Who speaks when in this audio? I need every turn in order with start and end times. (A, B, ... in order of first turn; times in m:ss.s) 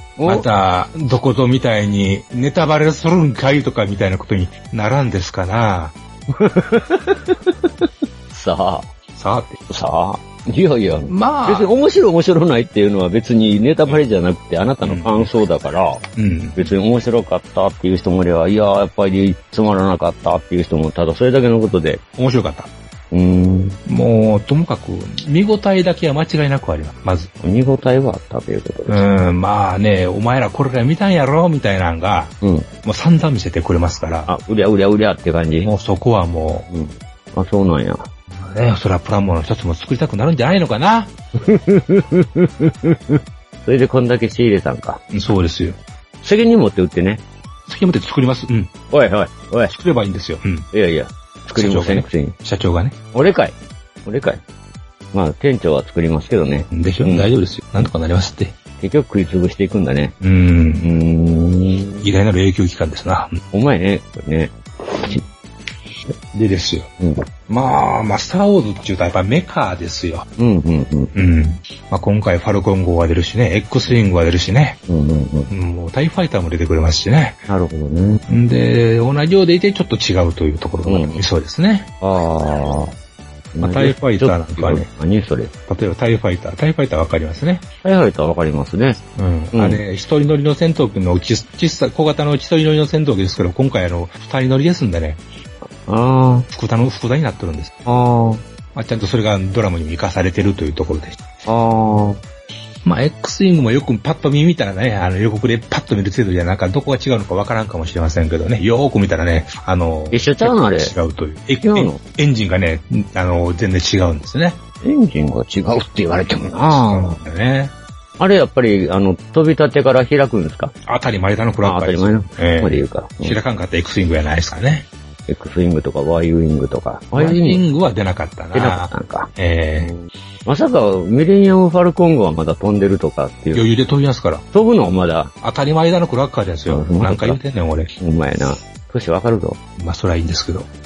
0:00.2-0:00.5 A
0:00.3-0:06.0 B
0:06.3-0:08.9 A
0:09.2-0:09.6 B
0:09.7-0:22.0 A
0:11.1-0:11.7 B
0:14.8-0:15.3 B
0:16.2-0:16.7 B
0:22.2-0:22.7 B
0:23.1-0:23.8 A
0:23.9-0:27.3 B
0:27.4-0:29.1 A
0:28.9-0:34.3 B
0:32.4-0:32.7 A
0:34.3-0:35.7 A
0:35.6-0:36.7 B
0:36.7-0:38.1 A
0:38.4-0:41.2 B
0:41.4-0:45.0 A
0:45.1-0:45.8 B
0:46.2-0:47.2 A
0:47.7-0:48.7 B
0:48.9-0:49.8 A
0:49.7-0:50.7 B
0:50.7-0:52.4 A
0:51.5-0:53.0 B
0:53.1-0:53.6 A
0:54.1-0:54.4 A
0:55.1-0:57.3 A
0:56.7-0:58.6 B
0:58.8-1:00.2 A
1:00.2-1:00.9 B
1:00.8-1:02.2 A
1:02.0-1:03.4 B
1:03.5-1:05.2 A
1:06.3-1:06.9 B
1:07.5-1:10.3 B
1:10.4-1:11.1 A
1:11.1-1:14.8 B
1:14.9-1:15.5 A
1:15.5-1:17.4 B
1:17.5-1:18.2 A
1:18.3-1:21.9 B
1:20.9-1:21.2 A
1:22.0-1:22.9 A
1:23.5-1:25.5 A
1:23.6-1:24.9 B
1:25.7-1:27.7 B
1:27.8-1:29.0 A
1:29.2-1:35.2 B
1:29.5-1:29.8 A
1:35.6-1:36.5 A
1:36.5-1:37.8 B
1:37.9-1:38.4 A
1:38.8-1:41.2 B
1:41.5-1:42.2 A
1:42.8-1:54.6 B
1:50.1-1:50.9 A
1:51.6-1:52.0 A
1:54.8-1:57.2 A
1:56.7-1:57.7 B
1:58.2-2:00.7 A
2:00.9-2:04.9 B
2:01.6-2:03.4 A
2:05.3-2:07.6 A
2:07.1-2:09.9 B
2:08.5-2:13.7 A
2:13.5-2:14.4 B
2:14.5-2:15.3 A
2:15.4-2:17.9 B
2:16.7-2:17.4 A
2:18.0-2:19.6 A
2:19.8-2:20.7 B